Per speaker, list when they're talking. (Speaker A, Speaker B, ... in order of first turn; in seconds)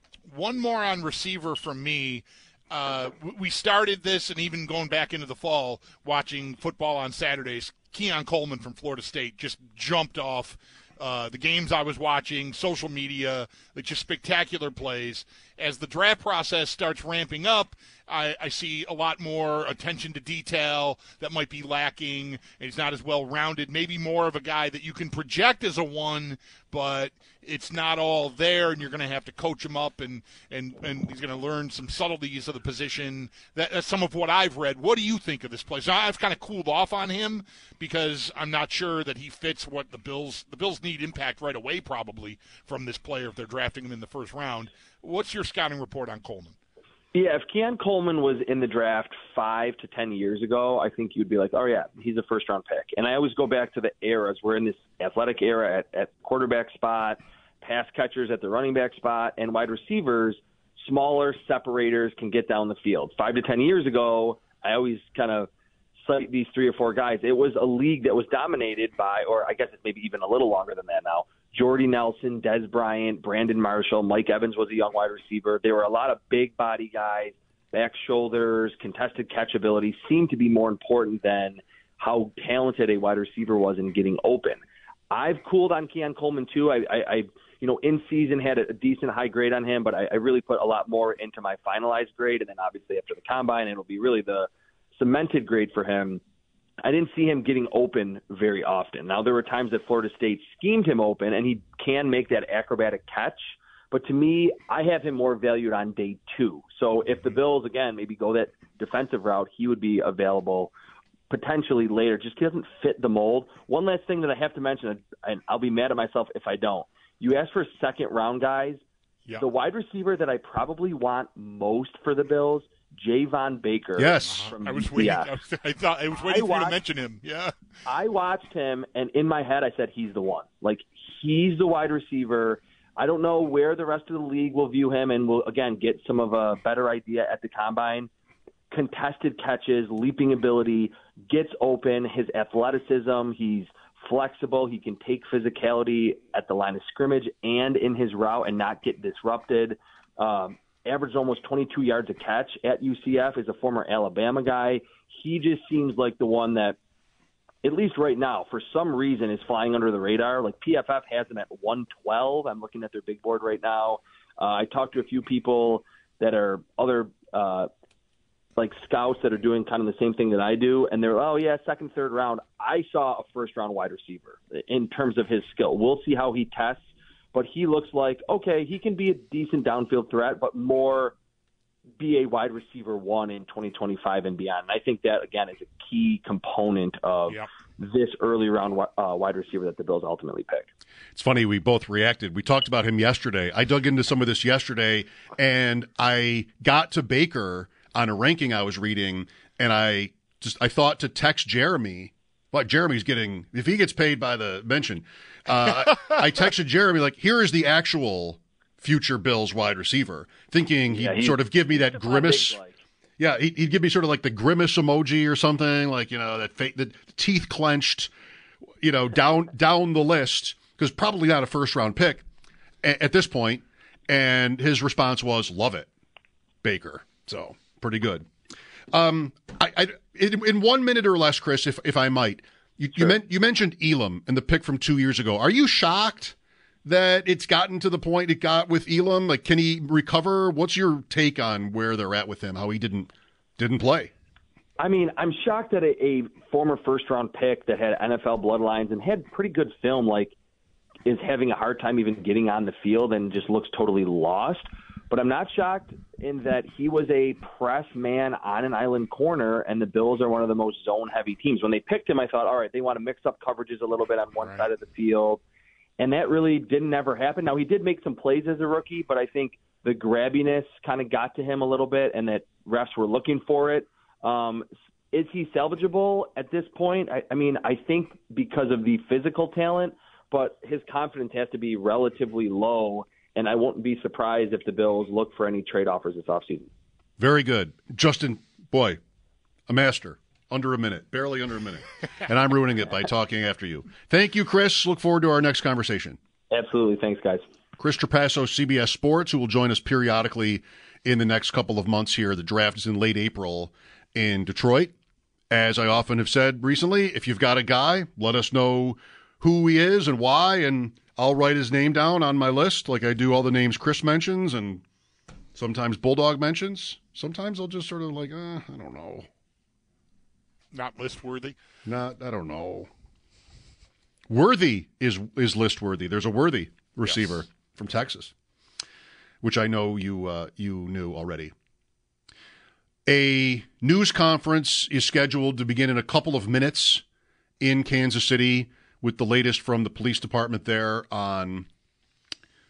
Speaker A: 0.3-46.5, 124.2-127.5, 320.7-321.6
Speaker B: 47.1-65.5, 66.0-96.2, 96.8-110.7, 111.3-118.8, 119.4-125.3, 126.2-126.8, 127.8-138.1, 138.7-156.8, 157.6-167.7, 168.6-181.1, 182.0-190.7, 210.9-212.8, 244.8-250.3, 251.1-265.4, 266.0-286.7, 296.5-297.4
Speaker C: 124.0-124.5, 191.1-212.6, 213.2-218.1, 218.8-222.2, 222.8-225.9, 226.6-228.3, 228.9-244.1, 287.2-289.0, 289.7-296.2, 297.8-304.9, 305.5-314.8, 315.6-319.3, 321.9-322.9, 324.3-328.3, 329.4-331.5, 333.1-337.0, 337.6-341.7